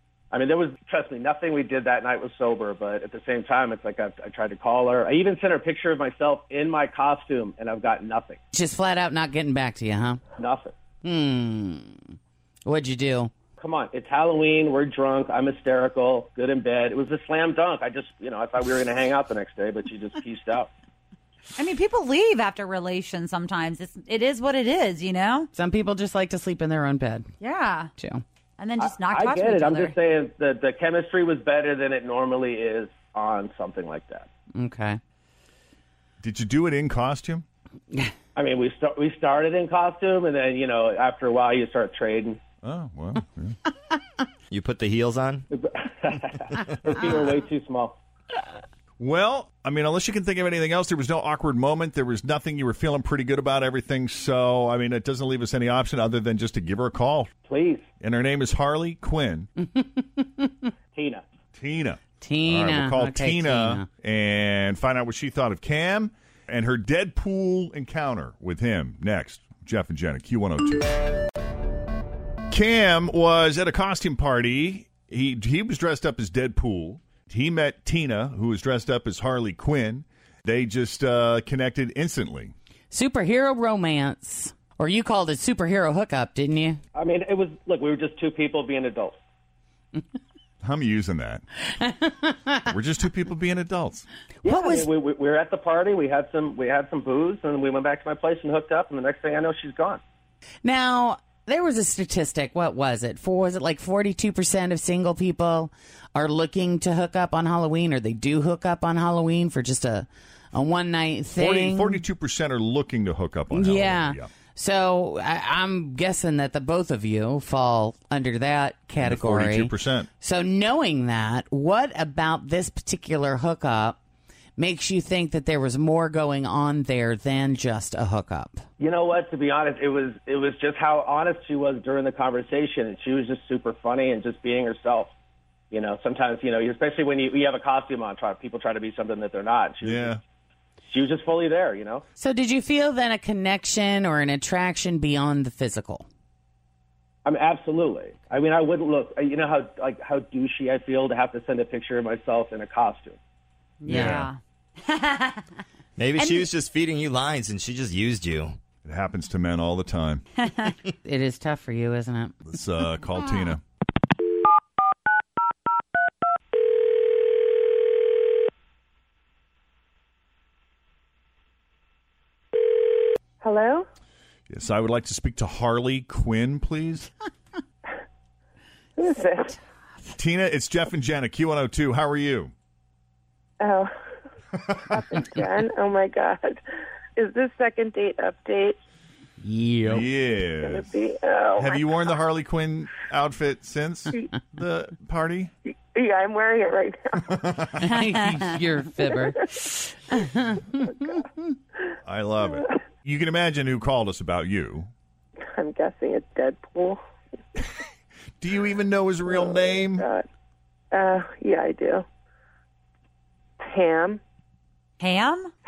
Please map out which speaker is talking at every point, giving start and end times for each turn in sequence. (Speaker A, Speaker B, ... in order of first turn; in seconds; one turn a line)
Speaker A: 0.3-8.4
Speaker B: 8.5-10.2
Speaker A: 10.4-10.7
Speaker B: 11.0-12.0
Speaker B: 12.7-13.3
Speaker A: 13.6-20.7
Speaker C: 21.6-25.5
Speaker B: 25.5-27.3
Speaker C: 27.4-27.9
Speaker B: 28.0-28.2
Speaker C: 28.6-30.0
Speaker A: 28.8-34.3
Speaker B: 34.6-35.0
Speaker D: 36.2-37.5
Speaker A: 38.4-42.4
Speaker D: 42.6-43.6
Speaker E: 44.5-45.5
Speaker A: 45.5-48.0
Speaker D: 49.0-57.3
Speaker A: 57.5-57.9
Speaker D: 58.0-59.5
Speaker B: 59.6-60.7
Speaker A: 60.9-61.2
Speaker D: 61.6-71.0
Speaker B: 62.2-63.9
Speaker D: 72.5-82.5
Speaker B: 82.9-86.8
Speaker A: 87.0-89.2
Speaker D: 90.6-91.4
Speaker B: 91.8-92.7
Speaker D: 92.7-94.1
Speaker B: 94.4-94.9
Speaker A: 94.5-100.0
Speaker B: 100.6-112.0
Speaker D: 111.4-114.3
Speaker B: 113.5-124.0
Speaker D: 119.0-120.1
Speaker B: 124.6-128.6
Speaker A: 128.8-135.1
Speaker A: 135.7-140.2
Speaker D: 139.8-140.2
Speaker A: 140.9-142.0
Speaker B: 142.2-146.1
Speaker A: 147.2-153.2
Speaker C: 153.8-155.4
Speaker B: 153.8-154.3
Speaker D: 153.9-154.3
Speaker E: 156.0-158.6
Speaker C: 156.2-156.5
Speaker D: 158.8-160.2
Speaker C: 160.4-160.7
Speaker B: 161.0-162.3
Speaker D: 162.4-163.6
Speaker F: 173.4-173.9
Speaker D: 174.5-177.1
Speaker F: 179.0-179.6
Speaker D: 180.2-182.5
Speaker F: 183.6-183.9
Speaker F: 184.8-186.6
Speaker F: 187.2-188.8
Speaker B: 189.4-190.1
Speaker D: 189.9-190.9
Speaker F: 190.6-191.9
Speaker D: 191.6-195.5
Speaker F: 195.9-197.4
Speaker D: 197.3-197.7
Speaker B: 197.8-201.2
Speaker D: 202.1-204.9
Speaker F: 205.5-207.0
Speaker D: 208.4-210.1
Speaker F: 209.3-210.2
Speaker F: 210.9-212.1
Speaker F: 213.6-214.2
Speaker C: 215.0-215.5